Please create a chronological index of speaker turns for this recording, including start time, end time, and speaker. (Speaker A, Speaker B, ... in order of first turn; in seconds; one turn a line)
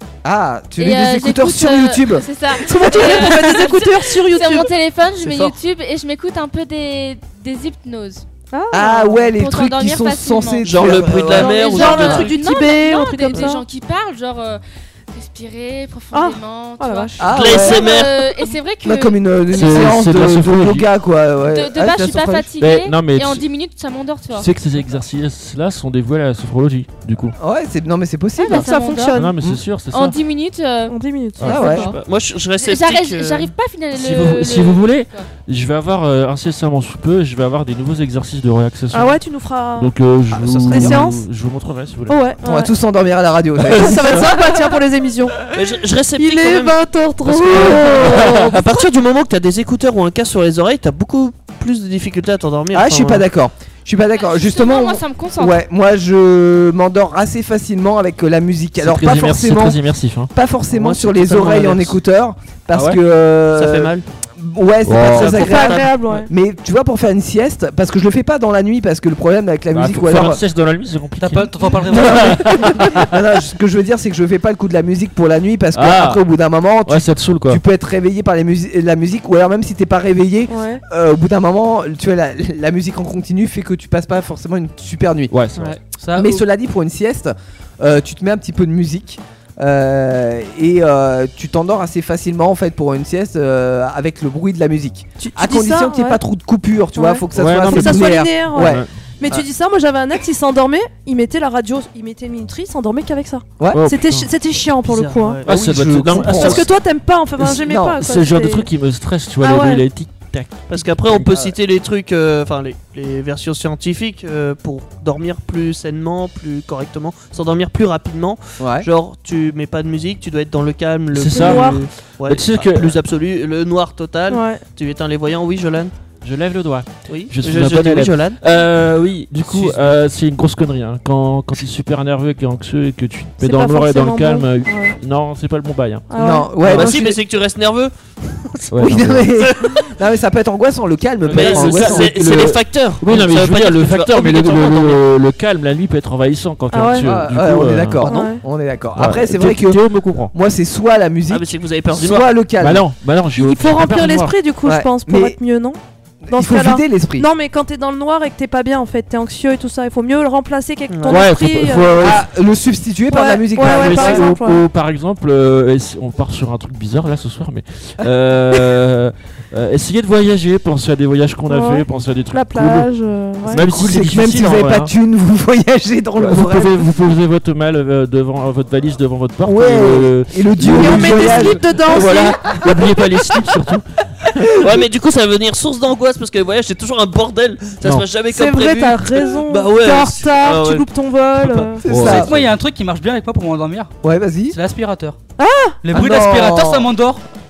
Speaker A: 0.2-3.6
Speaker B: 0.8-8.2
Speaker C: 2.6-4.7
Speaker D: 5.2-5.5
Speaker C: 8.5-9.3
Speaker A: 8.7-12.3
Speaker B: 9.3-10.8
Speaker D: 10.6-12.4
Speaker C: 10.8-13.6
Speaker B: 11.5-14.6
Speaker B: 15.1-19.9
Speaker C: 16.1-17.2
Speaker A: 17.2-17.9
Speaker D: 17.4-18.3
Speaker A: 18.8-22.5
Speaker E: 19.5-20.9
Speaker B: 21.4-24.5
Speaker E: 22.6-23.5
Speaker E: 24.3-27.4
Speaker A: 27.4-28.7
Speaker B: 28.4-29.3
Speaker C: 28.4-29.4
Speaker E: 29.1-30.2
Speaker B: 29.9-31.0
Speaker C: 30.9-31.9
Speaker E: 31.4-31.7
Speaker A: 31.4-31.9
Speaker B: 31.6-32.0
Speaker D: 31.7-33.5
Speaker B: 32.6-35.3
Speaker E: 33.9-39.2
Speaker C: 38.9-39.9
Speaker E: 39.8-42.2
Speaker A: 40.3-41.0
Speaker C: 40.7-41.2
Speaker C: 42.1-42.7
Speaker A: 42.4-44.3
Speaker E: 43.6-44.3
Speaker C: 43.6-45.4
Speaker D: 45.5-53.3
Speaker C: 46.2-48.8
Speaker E: 48.0-48.5
Speaker A: 52.7-59.8
Speaker B: 54.1-55.6
Speaker E: 58.8-60.3
Speaker A: 60.3-70.4
Speaker D: 60.7-61.9
Speaker E: 62.7-63.0
Speaker D: 63.5-64.0
Speaker E: 64.9-65.3
Speaker D: 65.0-65.9
Speaker C: 65.2-66.3
Speaker E: 69.7-73.1
Speaker F: 71.2-72.6
Speaker A: 71.9-85.3
Speaker E: 75.8-76.2
Speaker E: 76.9-77.6
Speaker C: 80.5-80.8
Speaker E: 85.3-85.8
Speaker F: 85.9-86.4
Speaker A: 86.2-99.4
Speaker C: 95.2-96.2
Speaker C: 97.0-105.4
Speaker E: 97.3-98.9
Speaker E: 103.7-104.3
Speaker D: 104.8-105.5
Speaker E: 105.5-106.7
Speaker A: 105.5-106.7
Speaker C: 106.1-108.7
Speaker A: 107.4-108.0
Speaker E: 108.0-111.5
Speaker C: 109.4-109.8
Speaker D: 110.7-125.9
Speaker A: 118.6-118.9
Speaker E: 121.2-123.0
Speaker C: 121.3-121.8
Speaker C: 124.3-124.6
Speaker E: 126.2-136.1
Speaker D: 127.1-128.4
Speaker D: 129.5-129.8
Speaker C: 133.4-135.0
Speaker C: 136.1-136.5
Speaker A: 136.2-137.2
Speaker E: 136.6-136.9
Speaker D: 136.7-139.9
Speaker E: 138.7-139.3
Speaker A: 138.8-142.2
Speaker E: 141.2-148.1
Speaker D: 141.3-145.0
Speaker C: 146.7-147.2
Speaker A: 147.0-152.9
Speaker C: 148.0-148.4
Speaker E: 149.0-150.3
Speaker D: 151.3-152.3
Speaker E: 152.6-154.3
Speaker C: 153.3-155.8
Speaker A: 154.6-155.4
Speaker A: 156.2-157.3
Speaker C: 156.3-162.1
Speaker D: 160.9-161.2
Speaker E: 161.1-162.2
Speaker A: 162.0-164.3
Speaker C: 163.1-164.7
Speaker E: 163.6-172.9
Speaker C: 171.5-173.6
Speaker E: 173.5-174.9
Speaker A: 173.5-176.9
Speaker E: 176.2-183.8
Speaker A: 179.4-181.6
Speaker C: 180.6-182.6
Speaker A: 184.4-184.7
Speaker D: 184.6-191.7
Speaker E: 187.8-188.1
Speaker C: 188.3-191.9
Speaker A: 191.8-192.4
Speaker E: 191.9-192.4
Speaker F: 192.0-193.9
Speaker A: 194.0-194.6
Speaker F: 194.5-195.2
Speaker C: 195.4-195.8
Speaker F: 195.8-197.2
Speaker A: 195.9-196.9